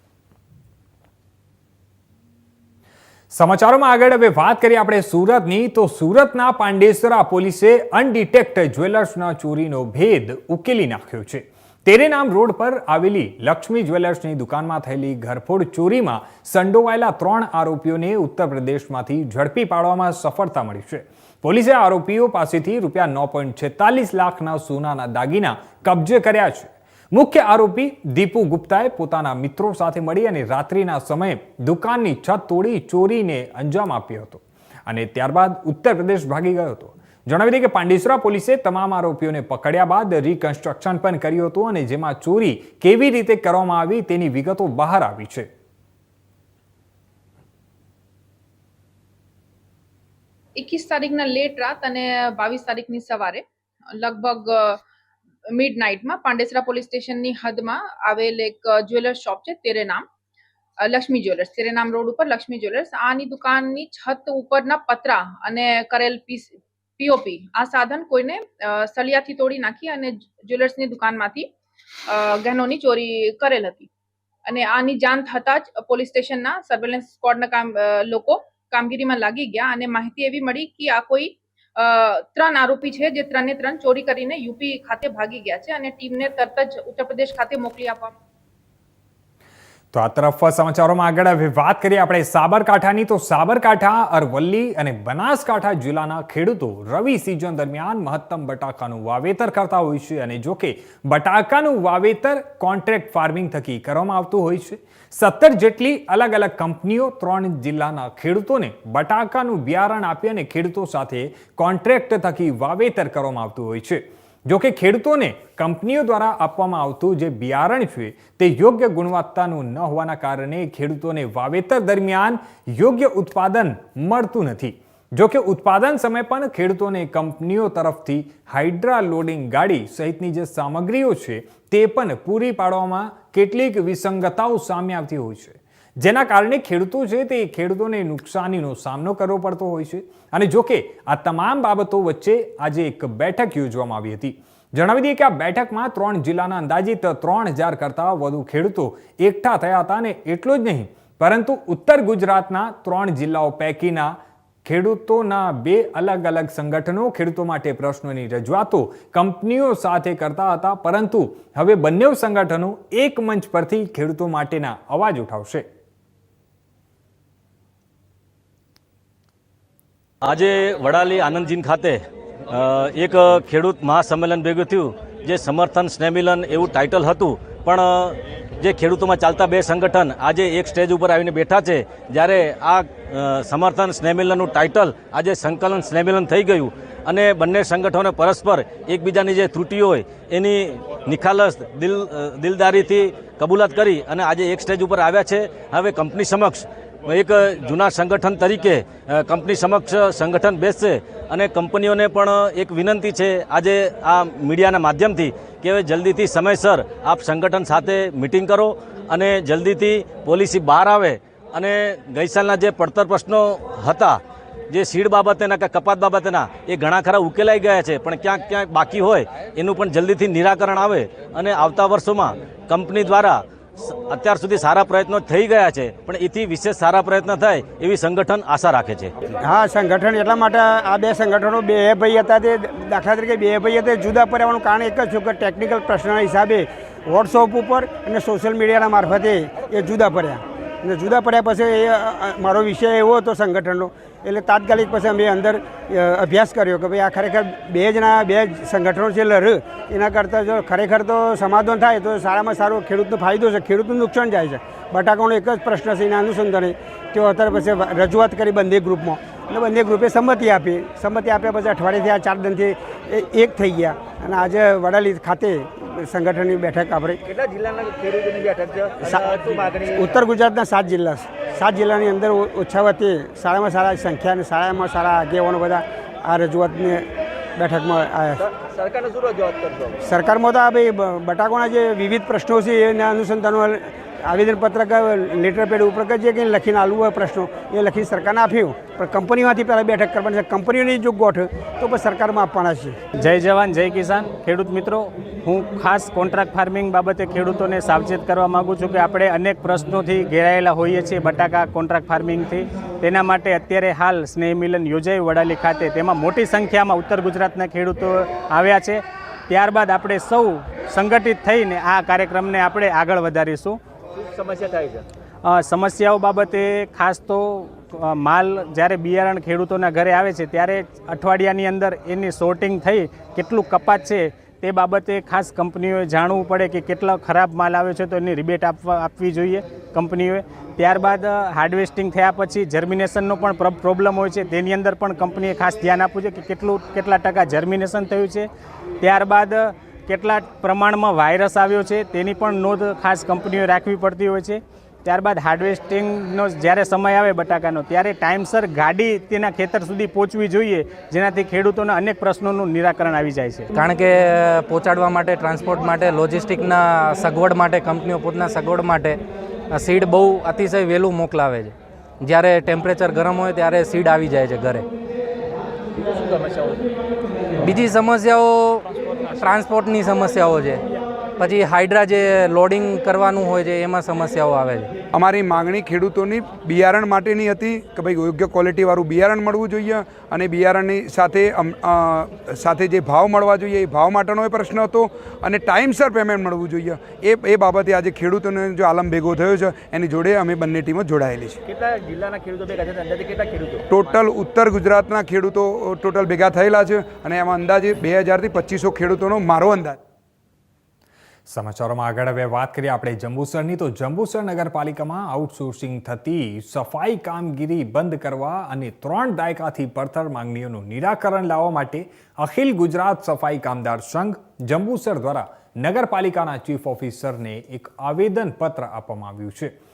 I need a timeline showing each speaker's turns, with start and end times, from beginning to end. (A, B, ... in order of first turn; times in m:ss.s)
0:03.3-0:45.5 A
0:50.6-0:53.4 B
0:54.0-0:54.8 B
0:55.5-1:00.0 B
1:00.8-1:11.5 B
1:12.1-1:13.9 B
1:14.5-1:28.1 B
1:29.9-2:45.7 A
2:50.2-3:49.2 C
3:49.4-4:27.2 D
4:27.2-4:30.1 E
4:29.0-4:38.4 D
4:38.4-4:40.0 E
4:40.0-4:53.0 D
4:53.2-5:13.8 F
5:14.1-5:15.0 E
5:15.4-5:38.5 F
5:39.0-5:53.7 F
5:53.7-5:59.2 G
5:59.7-6:04.8 G
6:06.0-6:06.8 E
6:07.6-6:10.8 G
6:11.4-6:14.9 G
6:15.1-6:31.6 H
6:31.6-6:34.2 E
6:33.9-6:40.0 H
6:41.5-6:59.7 A